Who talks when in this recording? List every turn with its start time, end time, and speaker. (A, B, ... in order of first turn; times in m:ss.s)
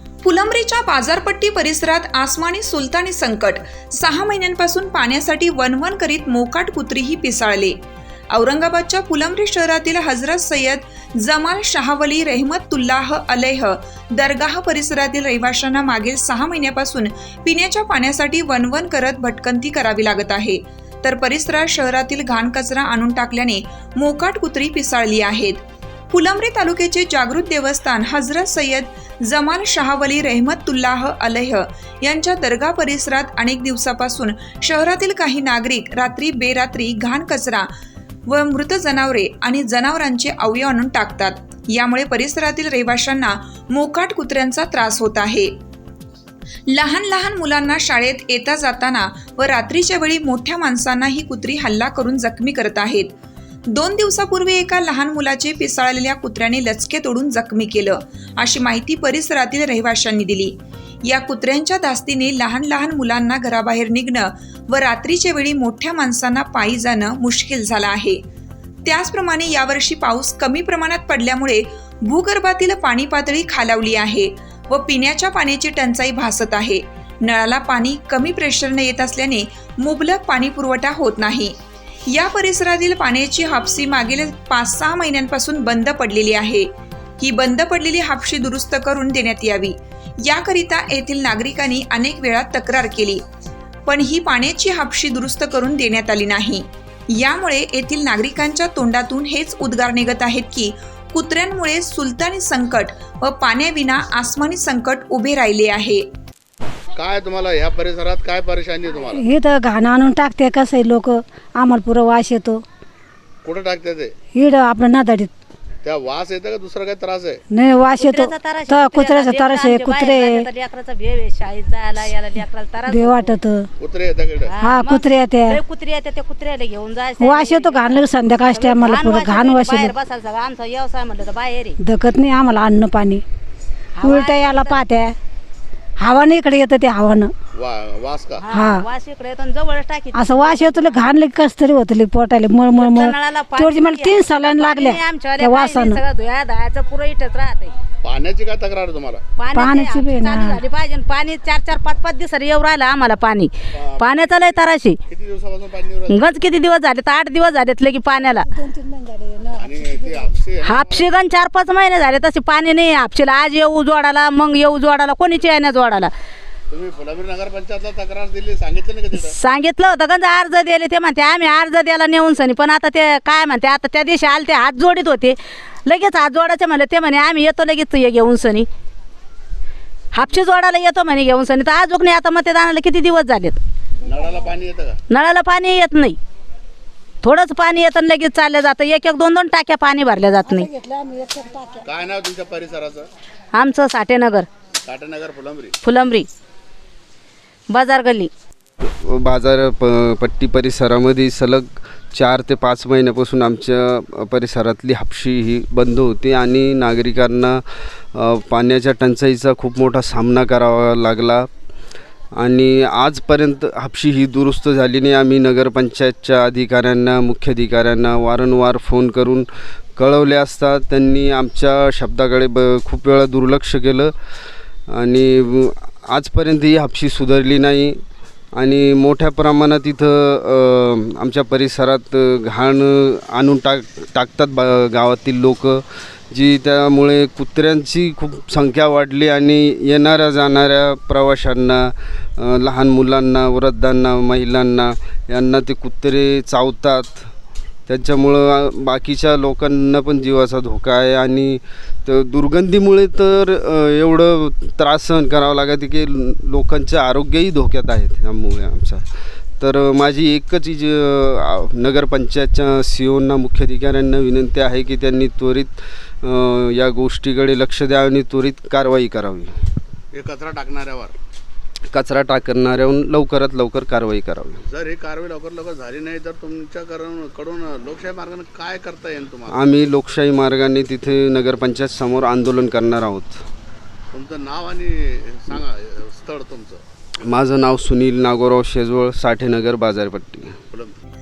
0:00.2-0:07.8 A
0:08.3-0:37.7 A
0:38.3-0:45.5 A
0:46.7-0:53.2 A
0:53.7-1:00.6 A
1:01.1-1:08.2 A
1:08.9-1:21.6 A
1:22.1-1:26.7 A
1:27.2-1:33.2 A
1:33.9-1:46.0 A
1:47.0-1:49.2 B
1:49.1-1:52.6 C
1:53.4-1:54.1 B
1:54.3-1:55.3 C
1:55.8-1:57.4 B
1:57.5-2:00.5 C
1:58.0-2:03.4 D
2:02.9-2:03.7 C
2:03.8-2:04.5 B
2:04.4-2:11.8 D
2:04.6-2:05.6 C
2:07.2-2:09.9 C
2:11.8-2:13.2 C
2:14.0-2:14.8 D
2:14.0-2:15.2 C
2:16.0-2:17.3 C
2:17.5-2:18.4 B
2:18.4-2:21.0 D
2:18.5-2:18.9 C
2:20.2-2:26.0 C
2:22.7-2:27.7 D
2:28.0-2:29.2 B
2:29.4-2:35.0 D
2:29.5-2:30.6 C
2:33.7-2:34.2 B
2:35.1-2:36.4 B
2:36.1-2:38.5 D
2:38.4-2:40.3 C
2:39.6-2:41.1 B
2:40.6-2:46.1 D
2:46.7-2:49.3 B
2:49.1-2:58.7 D
3:00.1-3:03.6 D
3:04.0-3:05.0 B
3:05.1-3:06.2 D
3:07.2-3:10.7 D
3:10.4-3:11.9 C
3:11.8-3:13.1 B
3:13.5-3:14.5 D
3:14.8-3:15.7 B
3:15.8-3:16.3 D
3:17.7-3:18.3 D
3:18.8-3:31.5 E
3:32.4-3:44.1 E
3:44.9-3:48.0 E
3:48.6-4:07.3 E
4:07.9-4:19.1 E
4:19.6-4:29.6 E
4:30.1-4:31.2 B
4:31.9-4:34.6 E
4:34.6-4:39.6 B
4:39.5-4:43.4 E
4:44.1-4:46.8 B
4:47.2-4:50.6 E